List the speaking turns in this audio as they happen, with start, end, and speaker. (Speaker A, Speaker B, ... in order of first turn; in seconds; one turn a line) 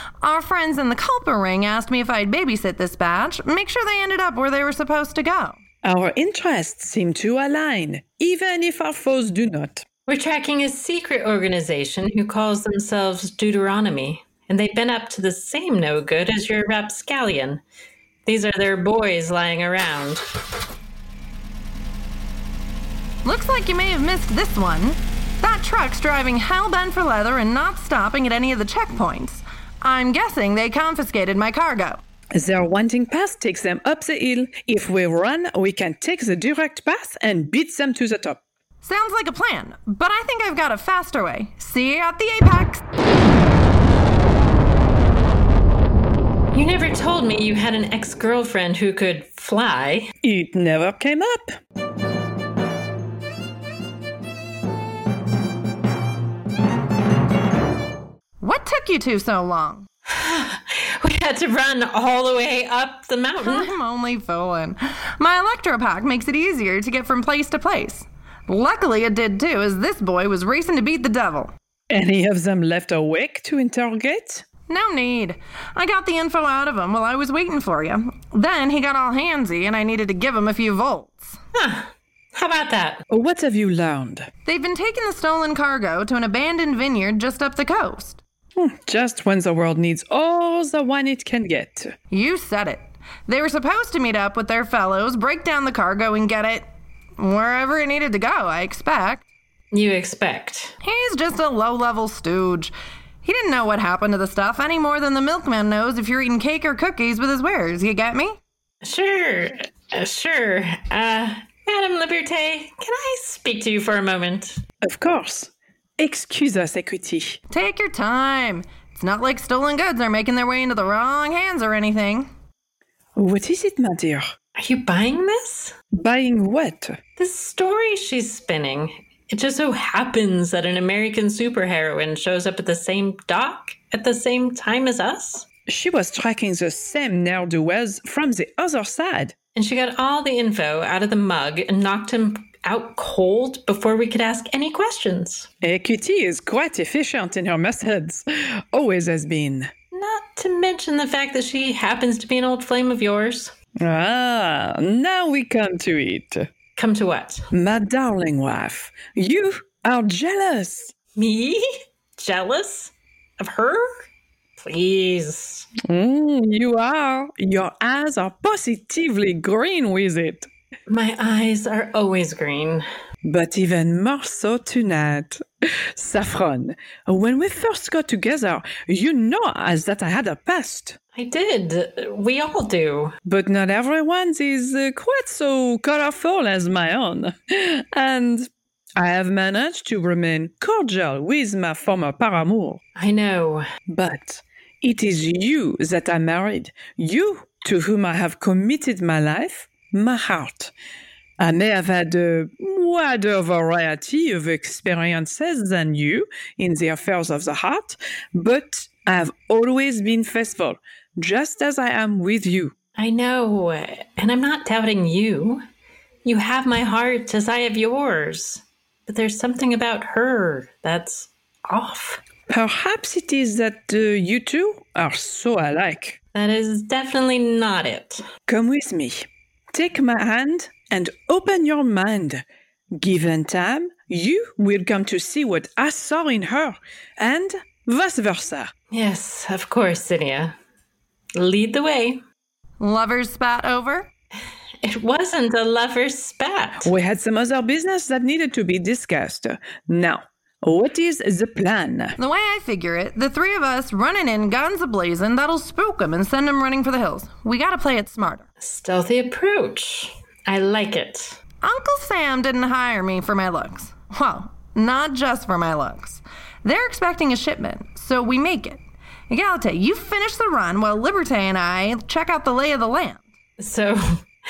Speaker A: 0.2-5.6
Speaker B: 5.8-9.8
Speaker C: 10.1-17.6
Speaker C: 18.2-20.2
Speaker A: 23.2-32.0
Speaker B: 32.3-38.4
Speaker A: 38.8-42.8
Speaker C: 46.5-50.1
Speaker B: 50.2-51.5
Speaker A: 58.4-59.9
Speaker C: 60.1-63.7
Speaker A: 63.4-71.5
Speaker B: 71.9-74.4
Speaker A: 74.7-81.4
Speaker C: 81.6-83.0
Speaker B: 83.1-84.3
Speaker A: 84.4-88.2
Speaker B: 88.6-91.9
Speaker A: 92.1-99.2
Speaker C: 99.7-100.7
Speaker A: 100.8-108.4
Speaker C: 108.8-114.6
Speaker B: 114.8-117.4
Speaker A: 117.5-122.3
Speaker B: 123.2-124.3
Speaker C: 124.5-125.7
Speaker B: 125.9-127.0
Speaker C: 127.2-135.5
Speaker B: 135.7-139.3
Speaker C: 139.5-145.5
Speaker B: 145.6-149.7
Speaker C: 149.9-153.5
Speaker B: 153.8-156.5
Speaker C: 156.8-157.4
Speaker B: 157.5-160.9
Speaker C: 161.2-161.6
Speaker C: 162.2-164.0
Speaker C: 164.6-165.7
Speaker B: 165.9-170.5
Speaker C: 170.9-172.8
Speaker B: 173.2-181.0
Speaker C: 181.1-183.1
Speaker B: 183.2-192.8
Speaker C: 192.9-193.6
Speaker B: 193.9-200.7
Speaker B: 201.4-212.7
Speaker C: 213.0-215.6
Speaker C: 216.2-222.2
Speaker B: 222.5-226.2
Speaker C: 226.3-228.2
Speaker B: 228.5-232.4
Speaker B: 233.0-238.7
Speaker C: 238.9-240.6
Speaker C: 241.3-242.2
Speaker A: 242.8-244.1
Speaker C: 244.8-246.9
Speaker B: 246.8-252.2
Speaker A: 252.2-258.5
Speaker C: 258.6-261.4
Speaker A: 261.6-273.2
Speaker C: 273.6-274.0